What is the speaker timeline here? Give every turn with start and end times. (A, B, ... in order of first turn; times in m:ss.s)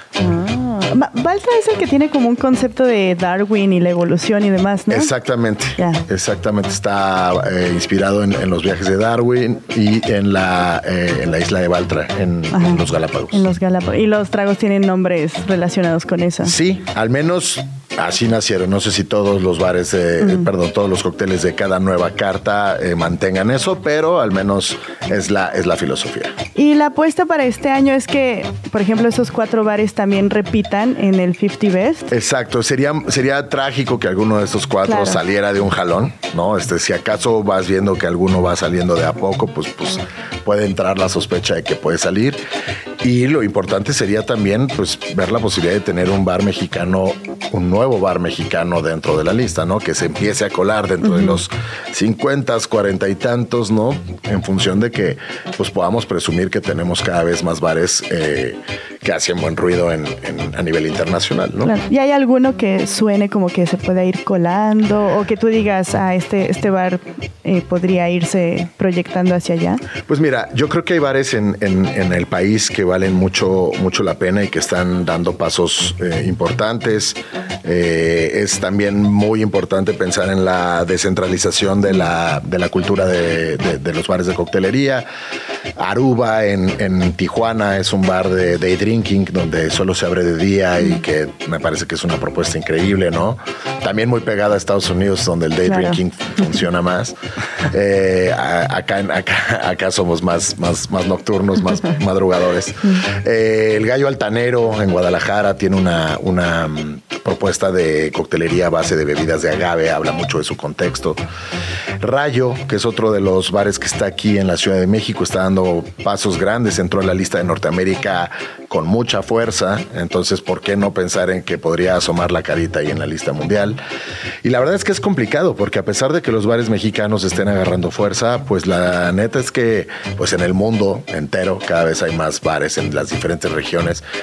0:00.2-0:05.1 A
0:04.9-0:13.5 B
0:12.5-0:16.5 A
0:16.4-0:26.4 B
0:20.2-0:20.5 A
0:26.6-0:32.1 A
0:32.1-0:42.4 B
0:34.8-0:35.2 A
0:43.0-1:01.7 B
0:51.0-0:51.4 A
1:01.6-1:09.8 A
1:10.0-1:25.1 B
1:25.8-1:37.2 B
1:35.6-1:36.0 A
1:37.7-1:51.2 B
1:52.0-2:03.8 B
2:04.4-2:14.0 B